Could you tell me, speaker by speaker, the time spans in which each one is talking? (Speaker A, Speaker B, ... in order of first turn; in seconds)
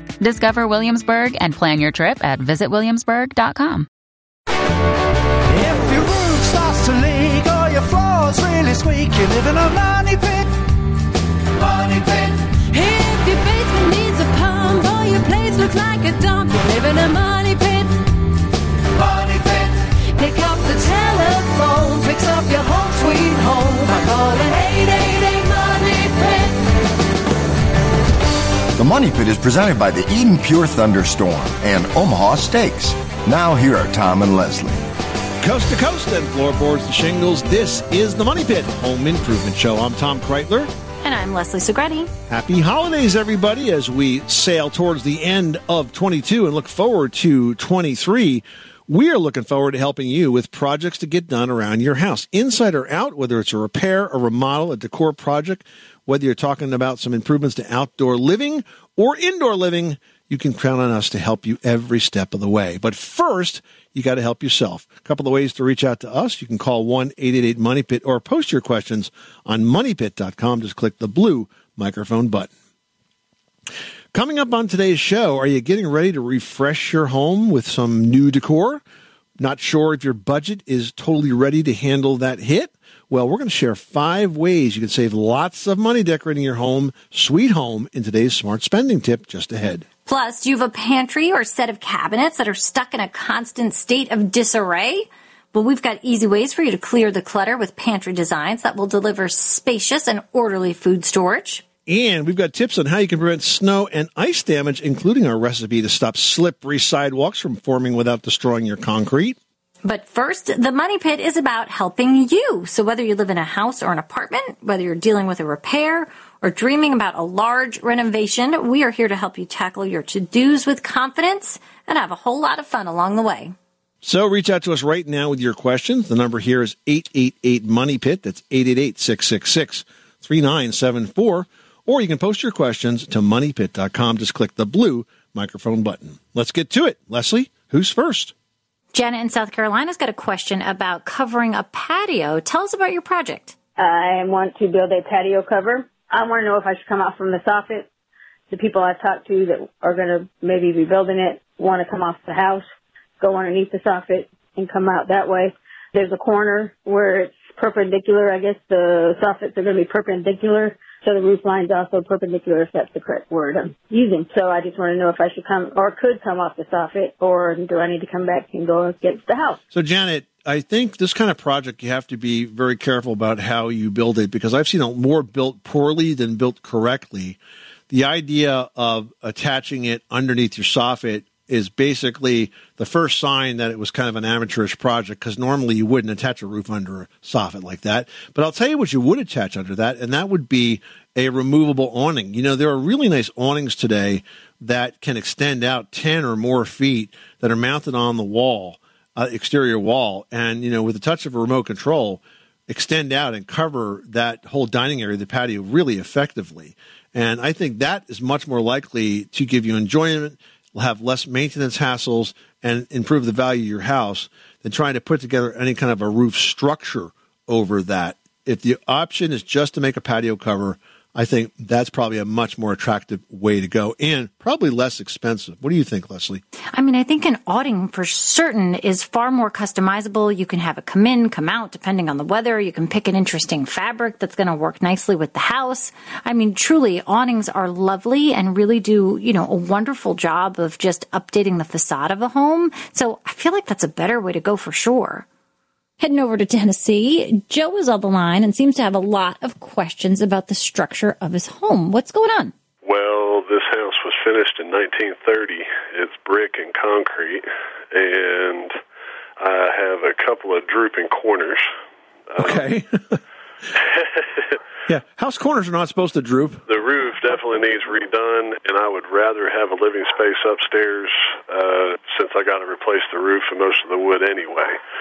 Speaker A: 0.2-3.9
Speaker B: 5.5-10.5, 11.8-12.2
Speaker C: 11.7-18.1, 19.0-26.6
Speaker D: 28.8-34.8
Speaker E: 35.4-40.7, 42.3-72.5, 74.1-78.8, 79.4-89.8, 101.9-109.4, 124.0-138.3, 169.7-177.4, 177.9-226.4, 262.4-263.2, 264.9-266.6
Speaker F: 41.0-42.1, 90.0-101.6, 109.8-123.5, 138.9-143.5, 226.7-245.2, 246.0-252.5
Speaker G: 143.8-147.9, 148.5-152.6, 153.2-169.6
Speaker H: 252.8-258.8, 259.4-261.7, 262.3-262.6, 263.9-264.4, 266.7-274.8